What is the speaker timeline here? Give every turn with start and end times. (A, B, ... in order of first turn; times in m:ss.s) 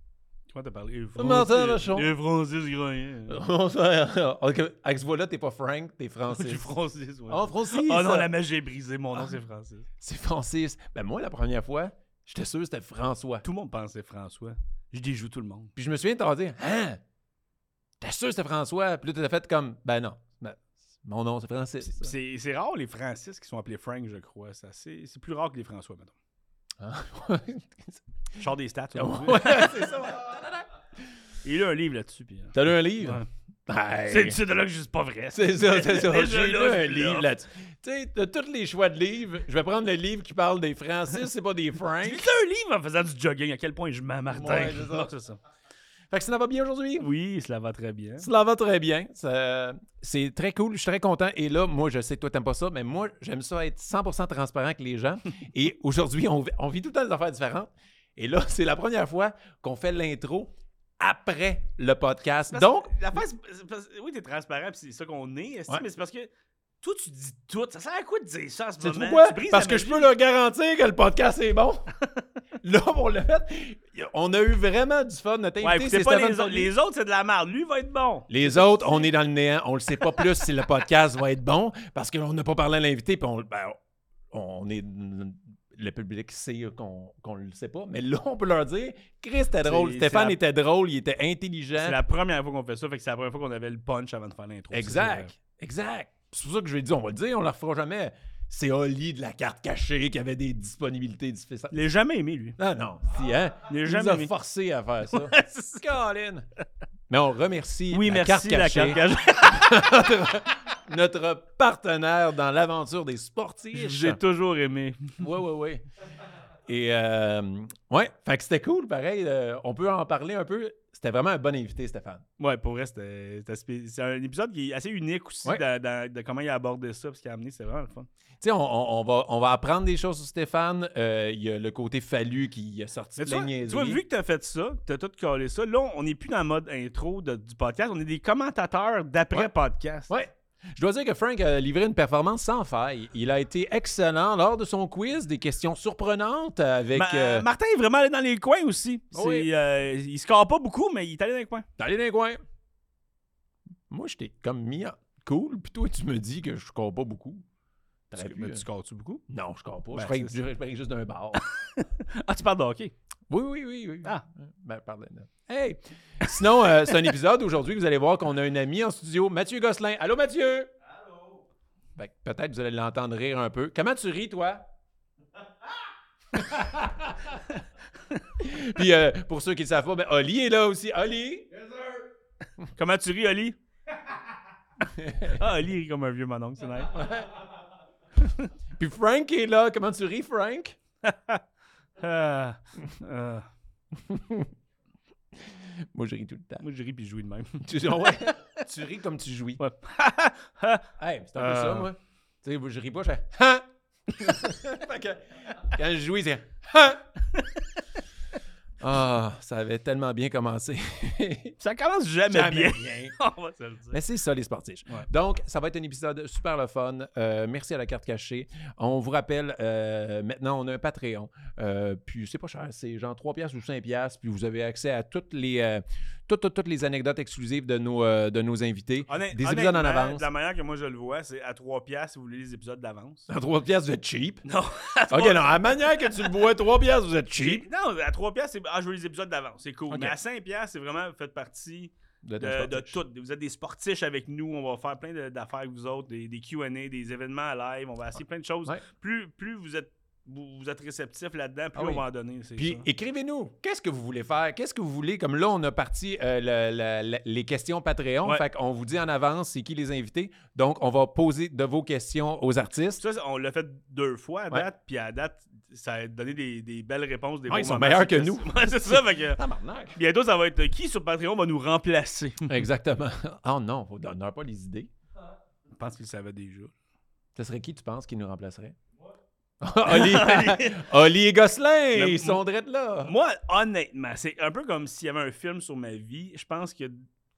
0:00.5-0:03.4 A
0:01.2-0:02.1 B
0:03.3-0:06.7 B
0:06.3-0:09.9 A
0:07.3-0:08.3 B
0:10.0-0:13.4 B
0:13.4-0:15.7 A
0:15.8-0:17.0 B
0:18.0-0:22.1 B
0:21.9-0:26.1 A
0:26.8-0:28.0 B
0:28.4-0:29.8 A
0:28.9-0:30.6 B
0:31.4-0:33.3 A
0:32.5-0:34.4 B
0:34.1-0:37.3 A
0:35.3-0:42.3 B
0:42.0-0:45.4 A
0:44.3-0:45.1 B
0:46.1-0:47.1 B
0:47.0-0:48.3 A
0:48.2-1:02.9 B
1:02.5-1:06.3 A
1:06.8-1:10.1 A
1:08.8-1:11.9 B
1:12.6-1:16.7 B
1:15.6-1:18.9 A
1:18.3-1:23.8 B
1:24.3-1:32.0 B
1:29.6-1:30.4 A
1:31.8-1:35.3 A
1:34.7-1:41.8 B
1:41.7-1:42.6 A
1:42.6-1:46.4 B
1:43.7-1:44.3 A
1:45.1-1:45.8 A
1:47.1-1:54.2 B
1:47.9-1:50.0 A
1:53.7-1:55.2 A
1:55.2-1:55.8 B
1:56.7-2:02.2 B
2:02.4-2:08.1 A
2:08.4-2:14.0 B
2:13.2-2:20.1 A
2:20.1-2:27.4 B
2:26.9-2:31.6 A
2:29.1-2:29.5 B
2:31.8-2:32.4 B
2:33.9-2:37.4 B
2:38.1-2:38.6 B
2:38.1-2:39.2 A
2:39.3-2:41.4 B
2:39.9-2:40.4 A
2:41.4-2:42.9 A
2:43.3-2:50.7 B
2:52.0-2:54.6 B
2:56.3-2:57.4 B
2:58.4-3:01.5 B
3:02.8-3:03.6 A
3:04.9-3:05.4 B
3:05.4-3:07.0 A
3:06.9-3:07.3 B
3:08.8-3:10.8 B
3:11.0-3:11.4 A
3:12.0-3:13.4 A
3:14.0-3:14.5 B
3:15.4-3:16.6 B
3:16.6-3:18.2 A
3:17.6-3:19.6 B
3:19.6-3:20.8 A
3:21.0-3:27.0 B
3:21.4-3:21.9 A
3:27.4-3:27.6 A
3:28.8-3:31.6 B
3:31.6-3:34.0 A
3:32.3-3:33.1 B
3:33.9-3:50.2 B
3:49.1-3:53.3 A
3:53.3-3:54.4 B
3:54.4-3:56.3 A
3:55.1-3:57.6 B
3:57.4-4:12.8 A
3:59.9-4:00.2 B
4:02.2-4:03.0 B
4:11.8-4:12.0 B
4:12.6-4:23.0 B
4:23.0-4:29.4 A
4:27.5-4:30.0 B
4:29.9-4:32.6 A
4:32.5-4:34.9 B
4:35.8-4:36.7 A
4:37.4-4:38.7 B
4:39.6-4:43.1 B
4:39.8-4:40.8 A
4:41.9-4:42.4 A
4:43.0-4:47.0 A